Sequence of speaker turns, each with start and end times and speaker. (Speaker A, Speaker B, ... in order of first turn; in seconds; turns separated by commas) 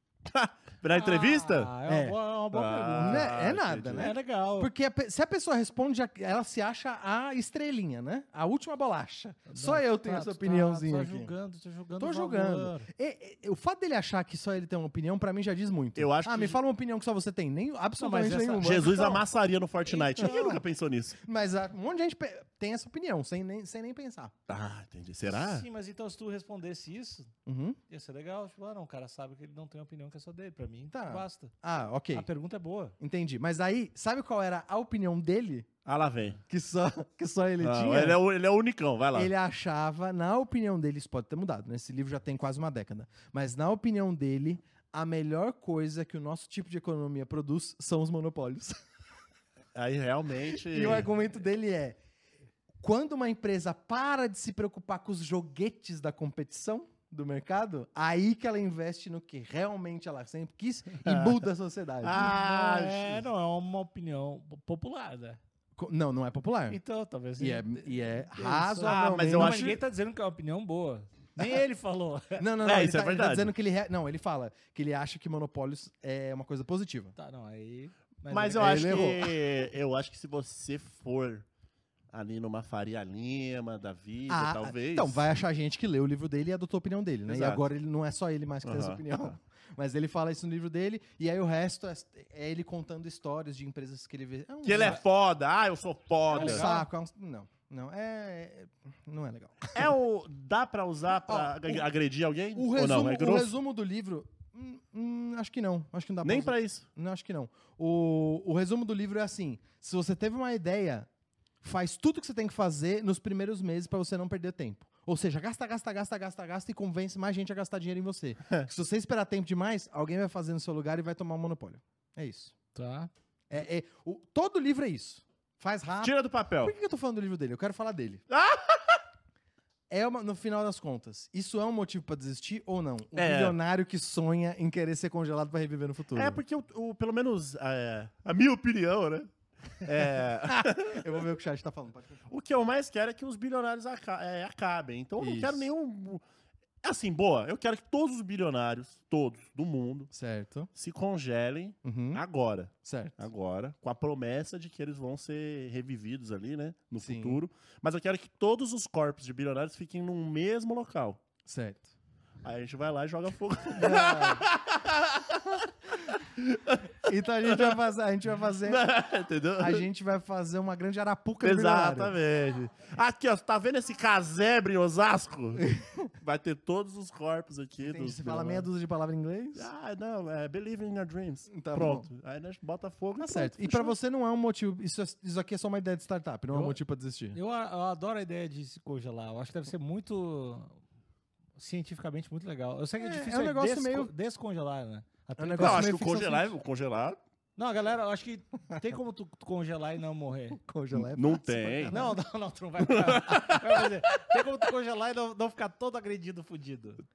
Speaker A: 0.3-1.7, Speaker B: 0.9-3.3, Speaker C: 1.9-2.2, Speaker A: 2.5-4.1, Speaker C: 3.0-11.3, Speaker B: 4.0-4.7, Speaker B: 9.5-12.9, Speaker C: 12.0-19.2, Speaker A: 15.9-16.6, Speaker B: 18.0-18.9, Speaker A: 18.6-21.2, Speaker B: 19.9-20.6, Speaker C: 20.2-20.6, Speaker C: 21.2-24.3, Speaker A: 24.5-25.6, Speaker B: 25.3-27.3, Speaker C: 27.4-27.8, Speaker B: 27.9-31.5, Speaker C: 30.9-32.3, Speaker B: 32.1-32.9, Speaker C: 33.0-35.7, Speaker A: 35.8-36.4, Speaker C: 36.5-38.2, Speaker A: 37.6-39.3, Speaker C: 39.1-48.8, Speaker A: 49.7-51.1, Speaker C: 50.5-52.0, Speaker C: 52.8-62.3, Speaker A: 61.0-61.4, Speaker A: 62.0-63.2, Speaker B: 62.1-65.4, Speaker C: 65.8-66.8, Speaker B: 66.7-72.4, Speaker C: 67.4-69.8, Speaker A: 68.8-69.8, Speaker C: 72.4-77.1, Speaker A: 72.6-73.5, Speaker B: 77.2-79.1, Speaker A: 78.3-81.4, Speaker C: 78.5-79.4, Speaker A: 82.1-85.2, Speaker C: 84.3-95.0, Speaker A: 87.3-87.6, Speaker A: 88.6-89.3, Speaker A: 94.6-96.7, Speaker B: 96.3-96.9, Speaker C: 96.3-99.9, Speaker A: 99.7-103.5, Speaker C: 101.2-101.9, Speaker C: 102.5-111.1, Speaker A: 106.2-106.8, Speaker C: 111.6-122.5, Speaker B: 122.7-123.1, Speaker C: 123.5-128.2, Speaker A: 126.0-126.7, Speaker A: 128.3-129.0, Speaker C: 129.9-136.4, Speaker A: 133.2-133.6, Speaker A: 136.1-141.1, Speaker C: 140.4-142.3, Speaker A: 142.3-146.2, Speaker C: 145.2-145.7, Speaker A: 146.8-150.1, Speaker C: 150.1-150.7, Speaker A: 150.7-161.2, Speaker C: 151.8-152.2, Speaker C: 152.8-153.2, Speaker C: 157.0-157.4, Speaker C: 161.4-161.9, Speaker A: 162.4-165.7, Speaker C: 163.8-164.4, Speaker A: 166.4-166.9, Speaker C: 166.9-168.8, Speaker A: 167.4-167.8, Speaker A: 168.6-169.8, Speaker C: 169.6-172.2, Speaker A: 171.4-175.7, Speaker C: 175.6-176.1, Speaker A: 176.2-178.7, Speaker C: 177.8-179.7, Speaker A: 179.5-183.9, Speaker C: 181.5-182.1, Speaker C: 183.2-187.4, Speaker B: 186.5-186.8, Speaker B: 187.3-190.7, Speaker B: 191.6-196.0, Speaker C: 193.0-194.1, Speaker C: 195.4-196.5, Speaker A: 195.6-197.2, Speaker B: 197.6-200.6, Speaker C: 200.6-202.2, Speaker A: 200.9-202.0, Speaker B: 201.9-207.0, Speaker A: 202.8-203.9